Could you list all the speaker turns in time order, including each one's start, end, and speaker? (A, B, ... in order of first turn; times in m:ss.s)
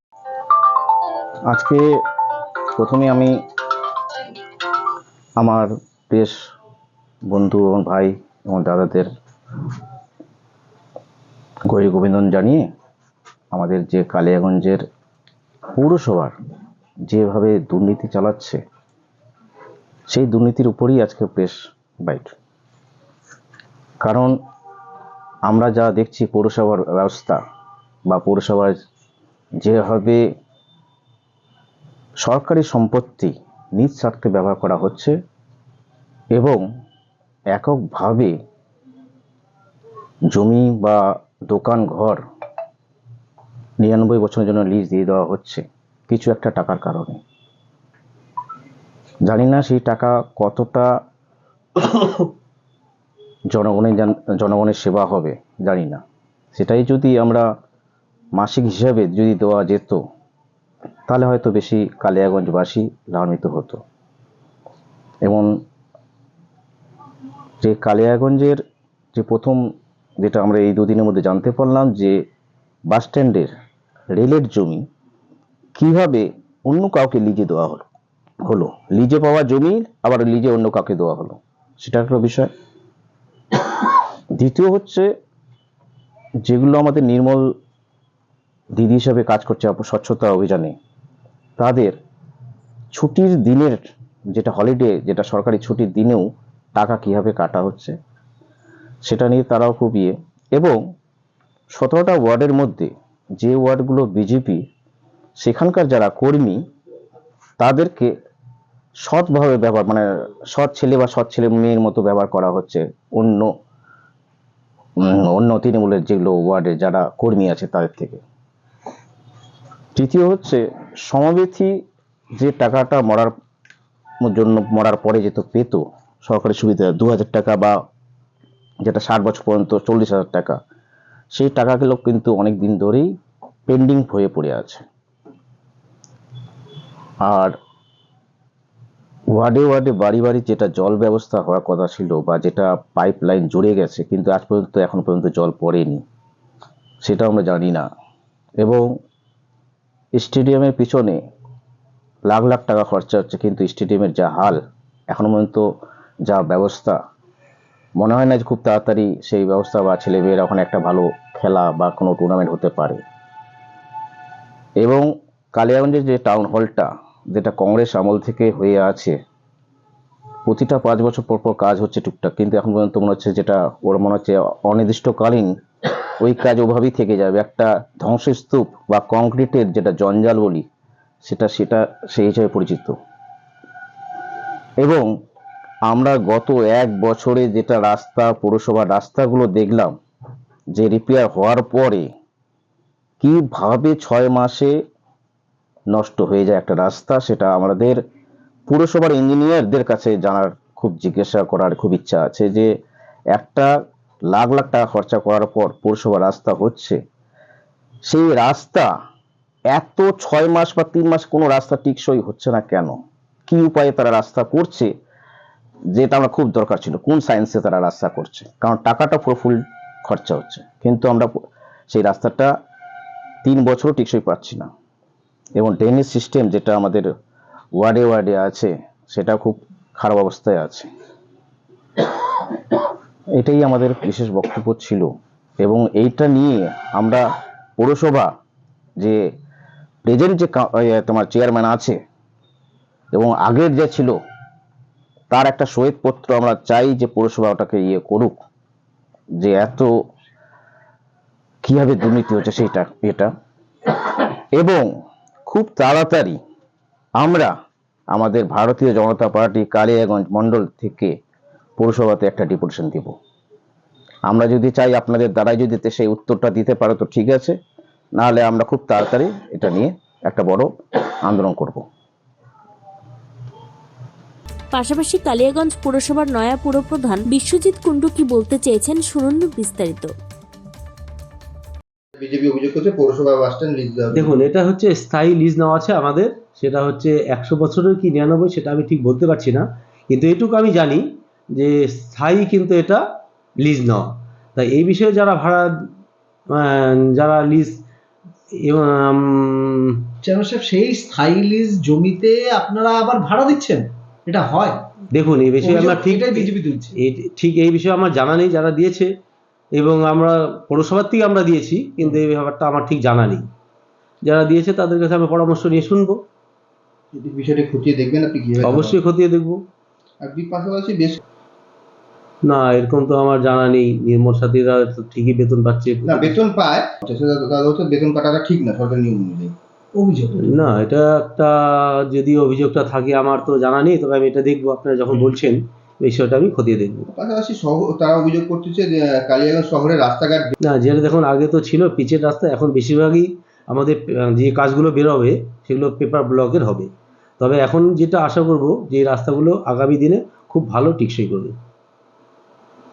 0:01.5-0:01.8 A
0:02.8-0:03.3 A
0:05.4-0:06.4 A
0:07.3-0:09.1 A
0:11.7-0:12.6 A
0:13.5-0:14.8 A
0:15.8-0:16.4 A
0:17.1-0:18.6 A
0:20.1-0:22.3 A
0:24.0-0:24.4 A
0:25.5-0:27.4 A
0:28.1-0:28.8 A
0:29.6-0:30.2 A
0:32.2-0:35.2 A
0:36.3-0:36.6 A
0:37.5-0:38.4 A
0:40.3-0:42.2 A
0:43.8-0:47.2 A
0:49.3-0:50.9 A
0:51.8-0:52.3 A
0:53.5-0:56.0 A
0:56.5-0:57.5 A
0:58.4-1:00.0 A
1:01.1-1:03.8 A
1:05.2-1:05.5 A
1:07.6-1:08.6 A
1:09.1-1:09.6 A
1:10.2-1:12.2 A
1:12.9-1:13.5 A
1:14.1-1:14.8 A
1:15.8-1:17.9 A
1:18.4-1:22.5 A
1:23.5-1:25.1 A
1:26.4-1:27.5 A
1:28.8-1:30.8 A
1:31.6-1:32.0 A
1:32.9-1:33.8 A
1:34.3-1:36.2 A
1:36.8-1:38.0 A
1:39.0-1:40.8 A
1:41.7-1:44.6 A
1:45.4-1:46.6 A
1:47.6-1:48.1 A
1:49.0-1:53.5 A
1:55.0-1:58.2 A
2:00.0-2:01.7 A
2:02.4-2:03.3 A
2:04.2-2:07.8 A
2:08.8-2:10.6 A
2:11.3-2:13.1 A
2:13.7-2:14.8 A
2:17.2-2:17.6 A
2:19.3-2:26.0 A
2:27.0-2:27.8 A
2:30.2-2:31.2 A
2:32.3-2:35.7 A
2:36.3-2:37.0 A
2:38.0-2:43.0 A
2:44.8-2:49.2 A
2:50.5-2:55.5 A
2:56.0-3:00.6 A
3:01.2-3:03.0 A
3:04.8-3:05.1 A
3:05.9-3:09.9 A
3:10.7-3:12.1 A
3:13.2-3:14.7 A
3:15.9-3:18.0 A
3:18.7-3:22.7 A
3:23.3-3:23.8 A
3:24.3-3:27.0 A
3:28.1-3:28.9 A
3:29.7-3:33.0 A
3:33.5-3:34.9 A
3:35.9-3:41.3 A
3:41.9-3:42.5 A
3:43.4-3:44.7 A
3:45.6-3:47.1 A
3:47.8-3:50.9 A
3:52.0-3:52.8 A
3:53.4-3:55.1 A
3:55.6-3:57.2 A
3:57.8-3:58.3 A
4:00.1-4:02.0 A
4:03.1-4:04.2 A
4:05.3-4:08.3 A
4:09.4-4:09.9 A
4:11.6-4:13.3 A
4:13.9-4:14.9 A
4:15.5-4:16.4 A
4:17.2-4:17.5 A
4:18.1-4:21.1 A
4:21.8-4:23.1 A
4:24.3-4:27.6 A
4:28.2-4:31.8 A
4:34.7-4:40.1 B
4:42.2-4:44.4 C
4:44.1-4:51.0 D
4:51.6-4:53.0 D
4:53.6-4:55.7 D
4:56.5-4:57.8 D
4:58.6-5:00.0 D
5:00.2-5:04.8 E
5:05.1-5:09.1 D
5:05.6-5:07.0 E
5:09.8-5:13.5 D
5:14.2-5:16.2 D
5:17.1-5:19.0 C
5:18.6-5:19.6 D
5:20.2-5:21.2 C
5:22.4-5:26.4 D
5:26.1-5:29.6 C
5:29.9-5:30.4 E
5:30.4-5:37.1 D
5:37.1-5:40.5 C
5:40.6-5:51.6 D